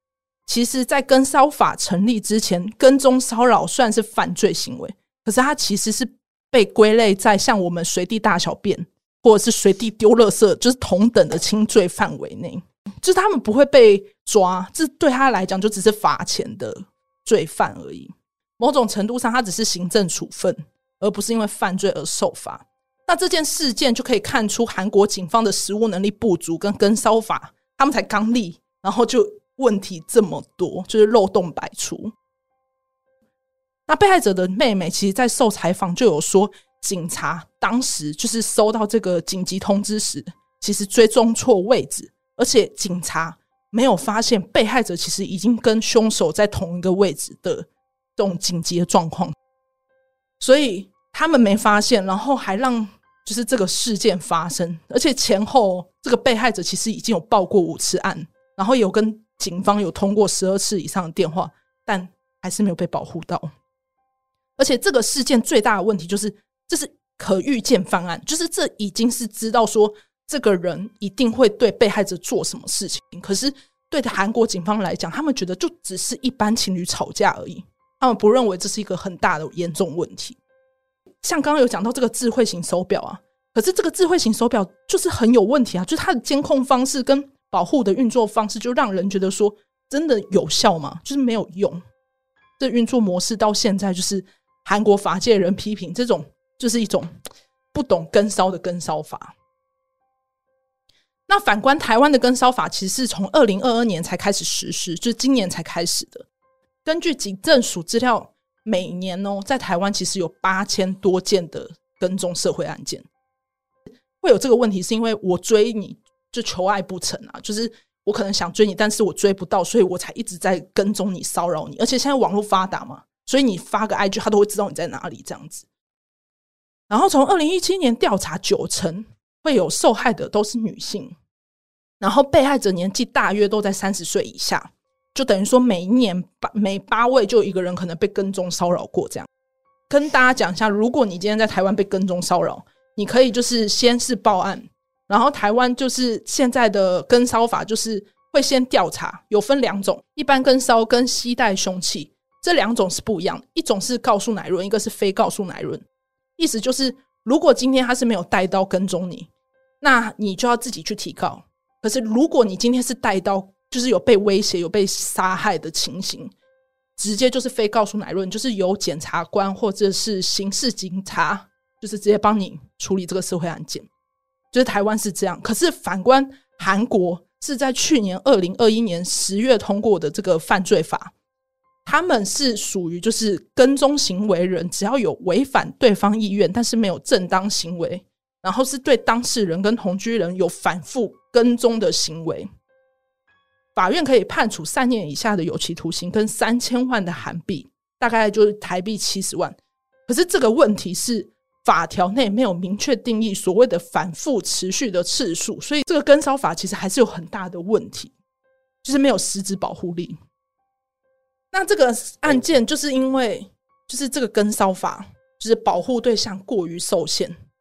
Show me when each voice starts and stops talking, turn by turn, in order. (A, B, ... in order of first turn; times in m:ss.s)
0:00.5-0:32.1 A
0:33.9-0:49.4 A
0:50.4-1:03.5 A
1:04.6-1:20.4 A
1:21.2-1:31.8 A
1:32.6-1:37.1 A
1:37.7-1:39.3 A
1:41.3-1:46.2 A
1:46.8-1:53.0 A
1:54.2-2:05.7 A
2:06.9-2:11.2 A
2:12.0-2:19.3 A
2:19.9-2:35.8 A
2:36.4-2:39.3 A
2:39.8-2:46.3 A
2:47.0-2:53.9 A
2:54.5-3:01.1 A
3:01.9-3:12.5 A
3:13.8-3:28.1 A
3:28.8-3:30.2 A
3:31.5-3:37.4 A